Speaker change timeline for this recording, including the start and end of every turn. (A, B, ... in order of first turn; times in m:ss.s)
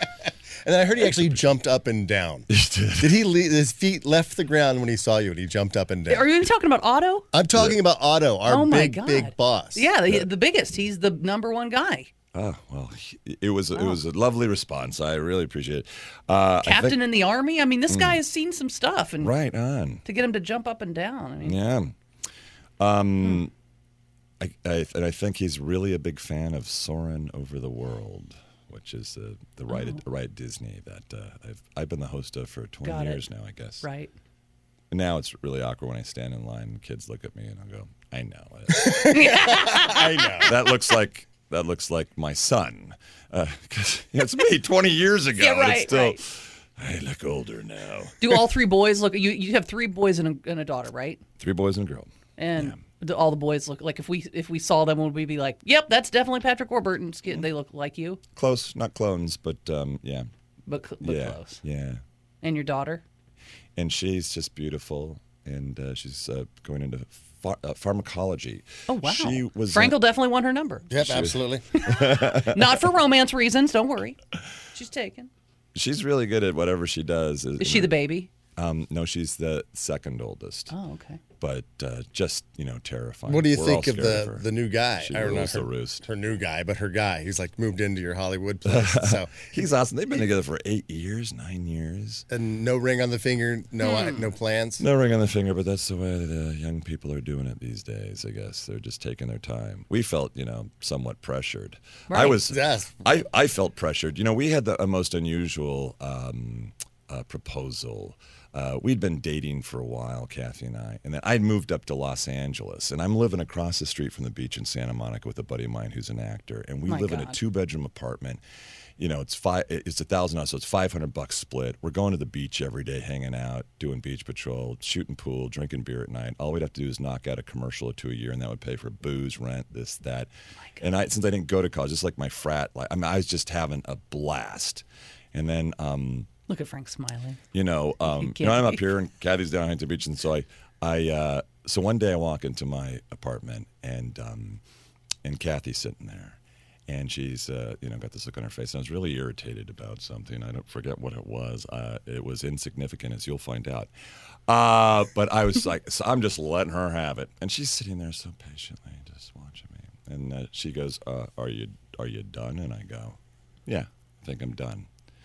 0:00.6-0:06.3 A
0:02.5-0:03.2 B
0:06.1-0:07.3 C
0:07.3-0:09.9 A
0:08.5-0:12.1 C
0:12.3-0:17.0 B
0:16.6-0:19.3 C
0:17.9-0:18.2 B
0:19.2-0:20.0 B
0:20.0-0:21.6 C
0:21.4-0:22.0 B
0:22.8-0:23.5 B
0:24.4-0:33.8 B
0:29.7-0:30.0 C
0:32.8-0:33.2 C
0:33.8-0:34.1 C
0:34.9-0:48.2 B
0:38.8-0:40.1 C
0:38.9-0:40.6 A
0:45.4-0:46.2 C
0:48.2-0:51.2 C
0:51.4-0:52.8 B
0:52.4-0:58.2 C
0:58.4-1:00.3 B
1:00.7-1:01.6 C
1:01.0-1:02.0 B
1:02.4-1:03.0 C
1:03.8-1:10.0 B
1:08.9-1:10.9 C
1:10.9-1:11.6 A
1:11.0-1:12.8 B
1:11.8-1:14.2 C
1:14.7-1:15.3 C
1:15.7-1:18.0 B
1:17.6-1:18.3 C
1:18.6-1:20.7 B
1:20.7-1:21.2 C
1:21.4-1:26.1 B
1:23.3-1:29.5 A
1:28.6-1:32.2 B
1:32.3-1:34.8 A
1:33.8-1:34.3 C
1:34.8-1:58.4 B
1:42.1-1:42.4 C
1:42.3-1:42.9 A
1:56.9-1:57.4 C
1:59.0-2:10.3 B
2:10.8-2:16.3 B
2:16.5-2:17.4 C
2:17.5-2:24.6 B
2:18.1-2:18.8 C
2:25.2-2:33.9 B
2:34.5-2:44.9 B